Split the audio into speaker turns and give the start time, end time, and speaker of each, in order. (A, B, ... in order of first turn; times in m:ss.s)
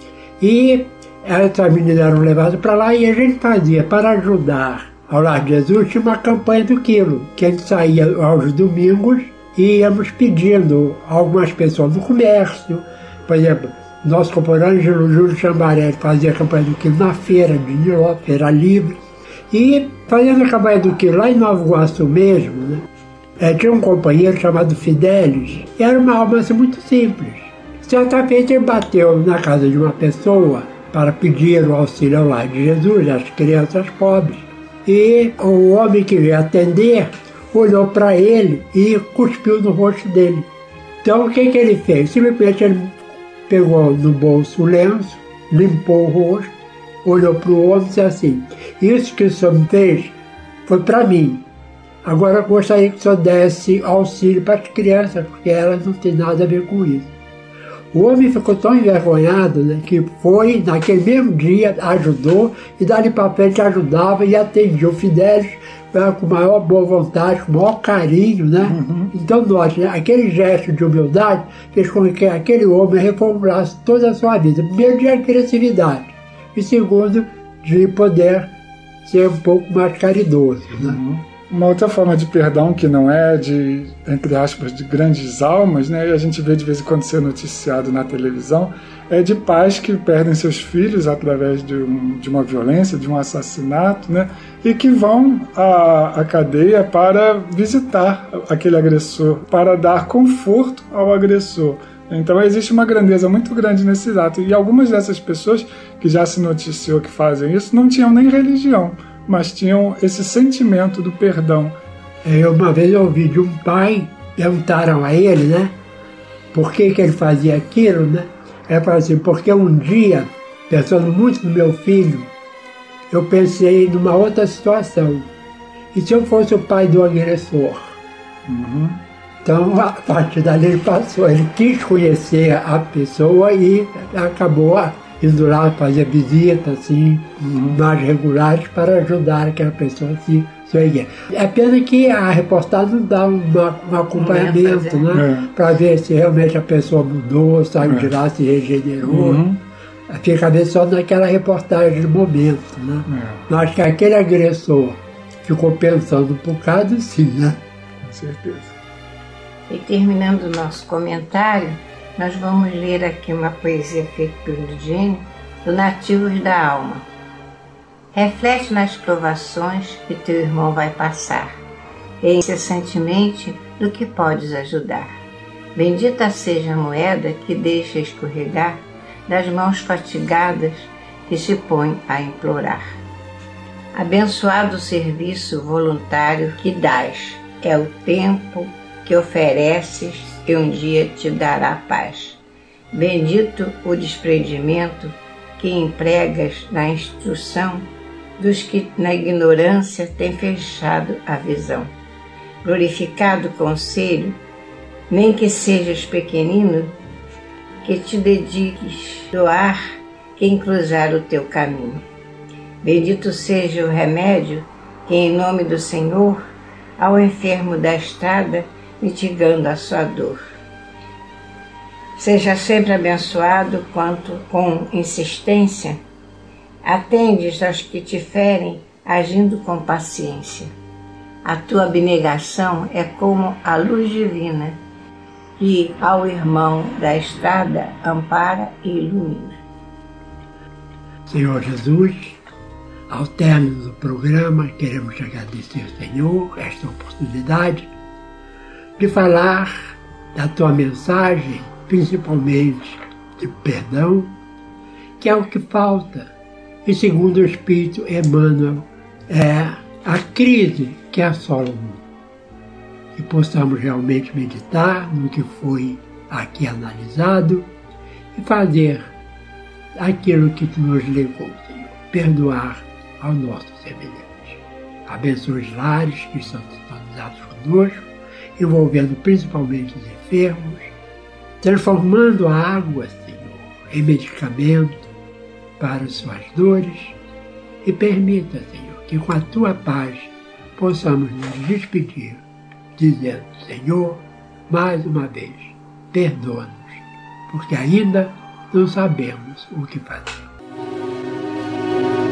0:00.4-0:22.8 A
0:23.4-0:40.5 A
0:41.0-0:43.0 A
0:43.5-0:46.5 A
0:47.0-0:50.1 A
0:50.6-0:51.4 A
0:52.0-0:57.1 A
0:57.9-1:18.5 A
1:08.6-1:09.1 B
1:19.0-1:21.0 A
1:20.8-1:51.8 B
1:52.2-1:55.8 A
1:56.5-2:02.3 A
2:03.1-2:05.3 A
2:05.9-2:08.0 A
2:08.4-2:09.0 B
2:09.4-2:29.4 A
2:17.4-2:17.8 B
2:24.1-2:25.1 C
2:25.1-2:25.5 B
2:27.8-2:28.1 B
2:29.0-2:29.6 B
2:30.1-2:37.6 A
2:33.1-2:33.4 B
2:38.0-2:38.7 B
2:39.7-2:47.0 C
2:48.1-2:51.5 C
2:52.2-2:55.1 C
2:55.7-3:03.0 C
3:03.9-3:12.4 C
3:12.9-3:21.9 C
3:22.6-3:24.4 C
3:25.1-3:26.9 C
3:27.8-3:29.8 C
3:30.4-3:32.0 C
3:32.8-3:36.4 C
3:37.0-3:40.4 C
3:42.2-3:46.0 C
3:46.8-3:50.7 C
3:51.4-3:54.8 C
3:55.6-3:59.6 C
4:01.3-4:02.4 A
4:03.1-4:07.9 A
4:09.0-4:14.3 A
4:15.2-4:16.3 A
4:16.8-4:22.0 A
4:23.1-4:27.7 A
4:28.3-4:29.1 A
4:30.0-4:38.1 A
4:38.6-4:40.9 A
4:41.6-4:45.1 A
4:45.8-4:47.2 A
4:47.8-4:52.4 A
4:53.0-5:00.4 A